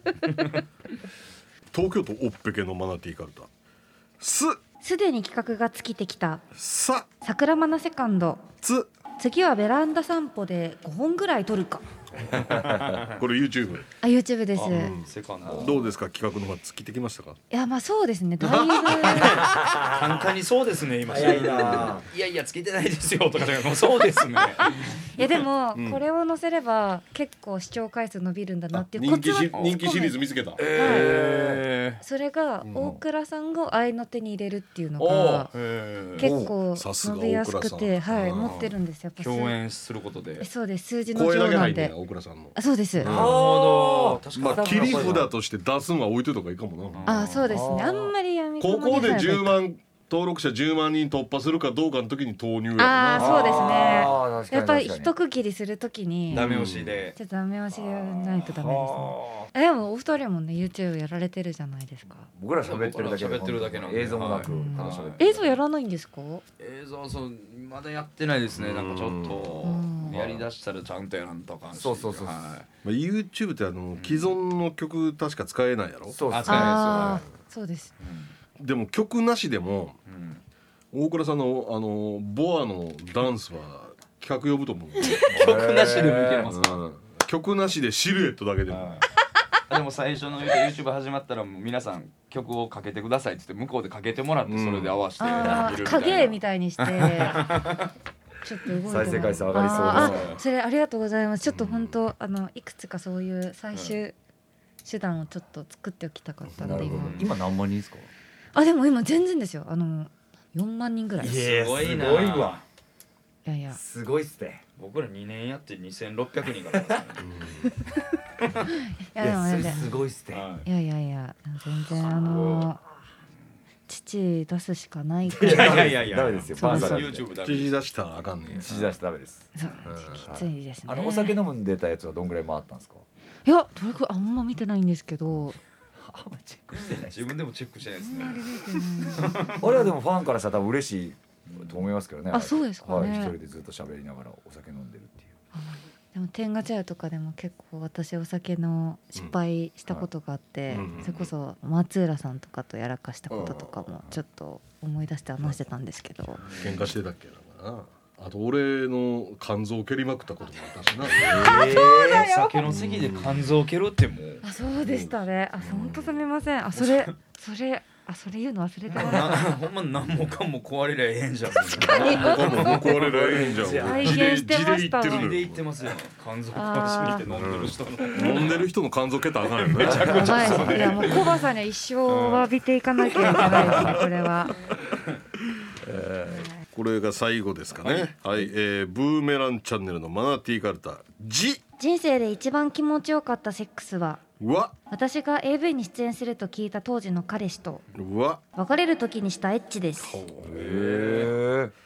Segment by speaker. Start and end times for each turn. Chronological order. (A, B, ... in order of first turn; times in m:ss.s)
0:00.3-0:00.6 A
0:01.7-0:03.5 B
0:04.2-0:04.6 B
0:04.8-0:06.4 C
0:06.5-0:07.1 B
0:07.2-0:08.4 C
0:08.6-0:08.9 B
0:09.2-0:11.8 C
0:12.3-0:13.0 D
0:12.3-0:13.2 A
0:13.2-0:13.9 B
0:14.0-0:14.9 C
0:14.5-0:15.8 A
0:14.7-0:17.4 B
0:15.4-0:15.8 D
0:17.5-0:19.6 C
0:18.4-0:19.2 B
0:18.9-0:25.1 A
0:19.2-0:20.4 D
0:21.0-0:22.0 D
0:24.6-0:30.2 C
0:25.7-0:26.0 B
0:28.7-0:30.6 B
0:29.5-0:29.8 A
0:30.6-0:32.0 A
0:30.6-0:31.6 D
0:30.7-0:31.2 C
0:32.0-0:35.5 C
0:32.7-0:33.0 D
0:35.0-0:36.3 A
0:36.2-0:39.6 C
0:36.2-0:36.5 D
0:36.7-0:38.6 B
0:38.4-0:40.5 A
0:40.4-0:41.9 C
0:41.1-0:43.4 B
0:42.6-0:43.1 C
0:43.0-0:45.3 D
0:43.1-0:45.2 A
0:44.4-0:47.1 B
0:46.9-0:47.5 A
0:47.0-0:49.6 C
0:47.5-0:48.1 D
0:48.6-0:54.0 B
0:52.8-0:56.5 C
0:53.1-0:55.1 D
0:56.3-0:57.2 A
0:56.3-0:57.0 B
0:57.2-1:02.3 C
0:57.7-0:59.5 D
1:02.3-1:05.6 D
1:02.6-1:05.3 A
1:04.4-1:06.4 C
1:06.6-1:12.7 A
1:08.5-1:10.4 B
1:09.6-1:10.2 C
1:11.7-1:12.4 D
1:12.8-1:16.2 B
1:14.0-1:14.4 A
1:16.1-1:17.2 D
1:16.3-1:17.2 A
1:16.4-1:17.9 C
1:18.0-1:18.3 A
1:18.6-1:20.0 B
1:20.0-1:20.4 A
1:20.9-1:25.2 B
1:25.1-1:26.8 A
1:25.3-1:26.5 D
1:26.5-1:29.0 B
1:28.7-1:29.0 A
1:29.7-1:37.9 A
1:34.4-1:35.0 B
1:35.2-1:37.6 C
1:35.4-1:35.8 D
1:38.4-1:44.1 C
1:38.8-1:40.4 D
1:39.1-1:40.4 A
1:41.4-1:42.0 B
1:43.7-1:44.0 A
1:44.8-1:47.2 C
1:46.5-1:46.9 B
1:46.6-1:48.1 D
1:46.7-1:47.4 A
1:48.5-1:51.4 C
1:51.2-1:52.6 D
1:51.3-1:52.6 A
1:53.4-1:53.8 C
1:53.7-1:54.6 D
1:54.8-1:57.2 A
1:56.7-1:57.0 D
1:57.2-1:57.7 B
1:58.6-1:59.9 C
1:59.2-2:00.4 D
2:00.3-2:00.7 A
2:00.6-2:02.8 C
2:02.0-2:02.7 A
2:03.9-2:07.0 C
2:05.3-2:07.2 D
2:05.4-2:07.7 A
2:07.3-2:08.7 B
2:08.6-2:09.5 D
2:08.6-2:08.9 A
2:09.6-2:11.3 C
2:09.8-2:10.2 B
2:10.1-2:13.0 D
2:10.9-2:11.3 A
2:13.4-2:15.6 C
2:16.0-2:17.3 D
2:16.7-2:19.9 A
2:18.0-2:19.8 C
2:19.1-2:25.3 D
2:21.4-2:21.9 A
2:22.3-2:23.3 C
2:25.5-2:36.4 C
2:30.7-2:31.3 B
2:33.3-2:33.7 B
2:36.4-2:36.9 A
2:36.5-2:41.7 B
2:41.2-2:44.4 A
2:41.2-2:42.3 D
2:41.3-2:42.6 C
2:42.6-2:43.5 B
2:44.4-2:49.5 C
2:44.8-2:46.2 B
2:46.7-2:47.1 A
2:48.9-2:54.5 A
2:51.8-2:52.6 C
2:52.0-2:55.6 B
2:53.0-2:53.8 D
2:53.8-2:55.3 C
2:55.0-2:58.6 A
2:56.5-2:57.3 C
2:57.3-3:00.8 B
2:59.6-3:01.4 A
2:59.9-3:04.6 C
3:02.1-3:02.5 A
3:03.1-3:04.1 A
3:03.5-3:04.0 D
3:04.9-3:05.2 A
3:05.8-3:06.5 D
3:06.7-3:11.6 B
3:07.8-3:08.1 A
3:11.8-3:14.2 C
3:14.4-3:14.7 B
3:14.9-3:17.8 C
3:17.9-3:18.4 B
3:18.6-3:20.2 C
3:20.0-3:21.3 B
3:20.4-3:21.7 D
3:20.6-3:21.3 A